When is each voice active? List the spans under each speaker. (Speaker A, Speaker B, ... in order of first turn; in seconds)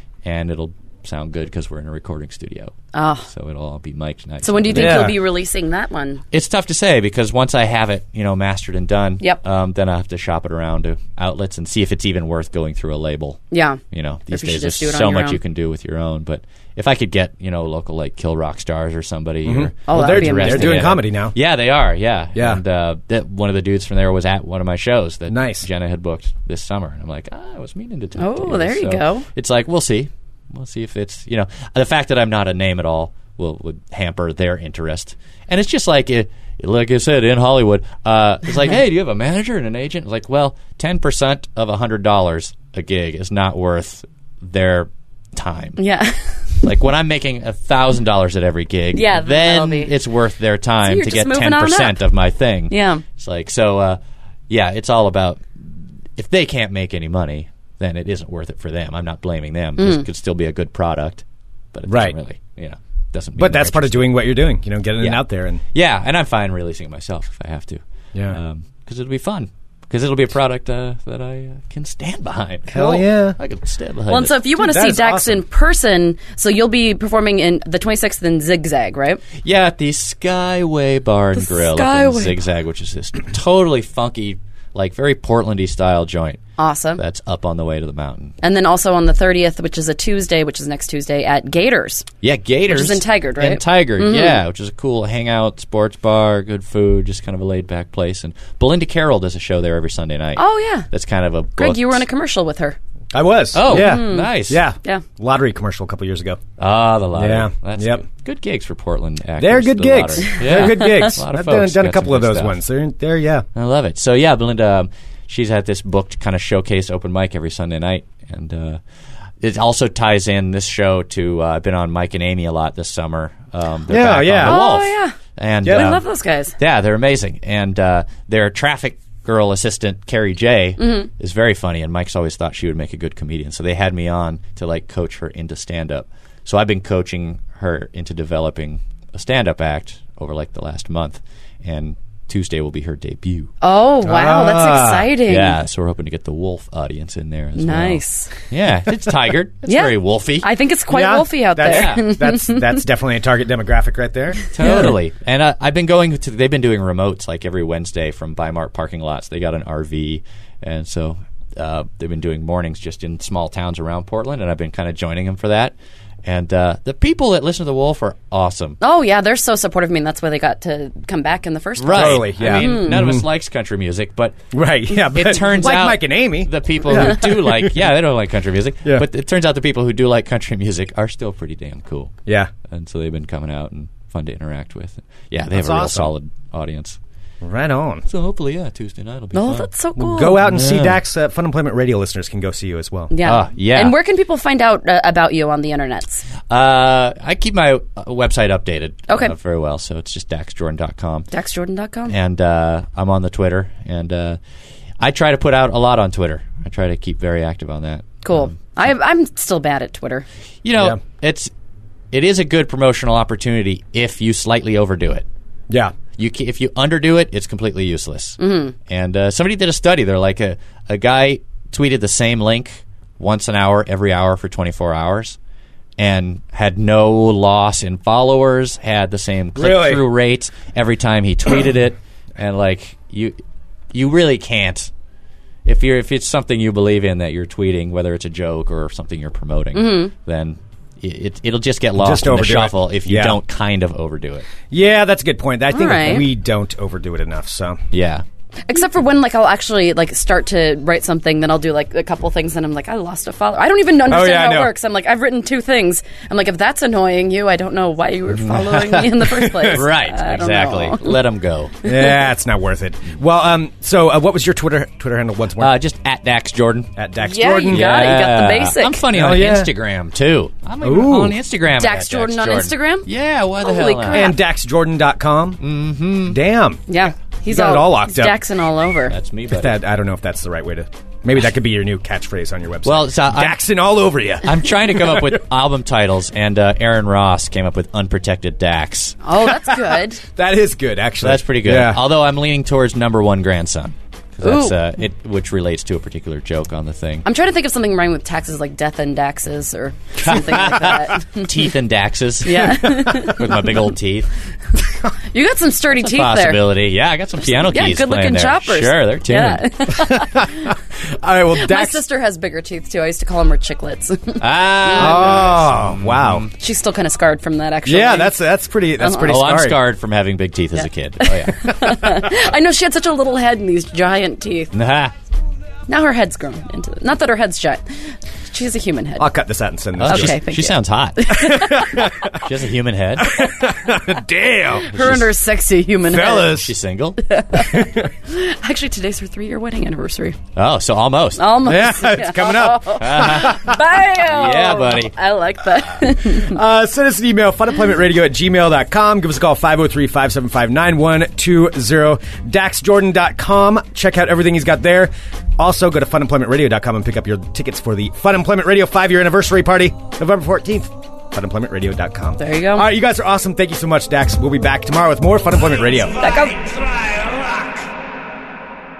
Speaker A: 0.2-2.7, 3.3-5.2, 6.3-45.8, 46.6-64.1, 65.7-74.4, 79.4-86.4, 87.0-88.3, 92.2-102.0, 103.5-104.7, 106.6-112.6, 113.5-118.8, 119.4-126.0, 126.6-143.5, 145.2-150.5, 151.6-152.1, 154.5-165.7, 166.2-168.8, 171.8-182.1, 182.7-187.0, 188.0-189.7, 190.4-191.0, 193.2-193.9, 196.5-201.3, 202.1-204.4, 205.0-208.6, 210.6-211.5, 212.1-215.2, 216.2-225.4, 226.0-233.4, 233.9-234.9, 235.6-244.5, 247.9-248.2, 258.3-261.8, 265.6-266.9, 267.7-274.3, 275.6-276.4, 279.1-279.7, 282.8-283.6, 284.4-289.2, 291.2-297.2, 300.2-304.3, 305.9-309.7, 314.4-316.5, 319.2-322.1, 324.7-325.1, 330.0-331.3, 332.3-333.5, 334.9-335.3, 336.5-337.2, 340.6-341.5, 343.0-345.1
Speaker B: 2.9-3.3, 4.4-6.2, 13.5-15.4, 19.9-20.8, 28.2-29.2, 45.8-46.4, 48.9-49.9, 50.8-52.0, 52.7-53.0, 59.8-60.0, 74.1-79.2, 81.3-82.3, 86.6-87.0, 88.4-92.1, 92.7-94.4, 100.3-100.9, 101.5-102.8, 103.6-105.0, 124.4-125.2, 125.7-126.5, 130.8-131.1, 143.6-145.6, 147.6-148.3, 149.7-152.8, 168.8-173.0, 189.3-190.4, 193.1-196.2, 199.1-199.3, 201.3-202.1, 208.2-210.2, 218.4-218.7, 239.7-240.1, 245.7-246.3, 248.7-261.1, 267.2-269.0, 271.8-273.1, 273.6-274.4, 276.9-279.1, 289.2-290.2, 294.4-294.7, 297.2-301.5, 302.4-303.7, 305.2-306.7, 307.4-310.7, 311.5-315.3, 316.5-318.4, 319.0-319.3, 320.7-324.7, 325.9-327.8, 328.5-329.3, 330.0-332.1, 334.8-336.6, 337.2-340.4, 341.4-346.6, 362.4-362.9, 366.2-366.7
Speaker C: 4.7-5.2, 19.4-21.4, 22.4-22.6, 25.3-25.7, 61.9-62.1, 63.4-65.6, 68.1-68.4, 72.7-73.4, 74.5-75.4, 103.1-106.4, 107.1-108.0, 109.4-113.4, 123.9-124.6, 125.6-125.9, 144.0-145.1, 150.9-154.9, 171.9-173.3, 174.5-177.8, 185.5-186.1, 187.4-188.0, 189.9-193.1, 215.7-215.9, 229.6-230.0, 242.0-243.4, 244.7-247.8, 254.0-254.7, 261.8-265.8, 266.9-267.9, 269.1-269.7, 270.8-271.4, 274.1-275.6, 276.3-276.8, 277.4-278.4, 279.5-285.2, 290.2-292.0, 309.9-312.0, 314.9-316.5, 317.9-319.8, 329.2-330.4, 331.4-332.4, 333.2-335.2, 336.0-336.7, 337.5-338.1, 341.6-343.8, 346.3-366.3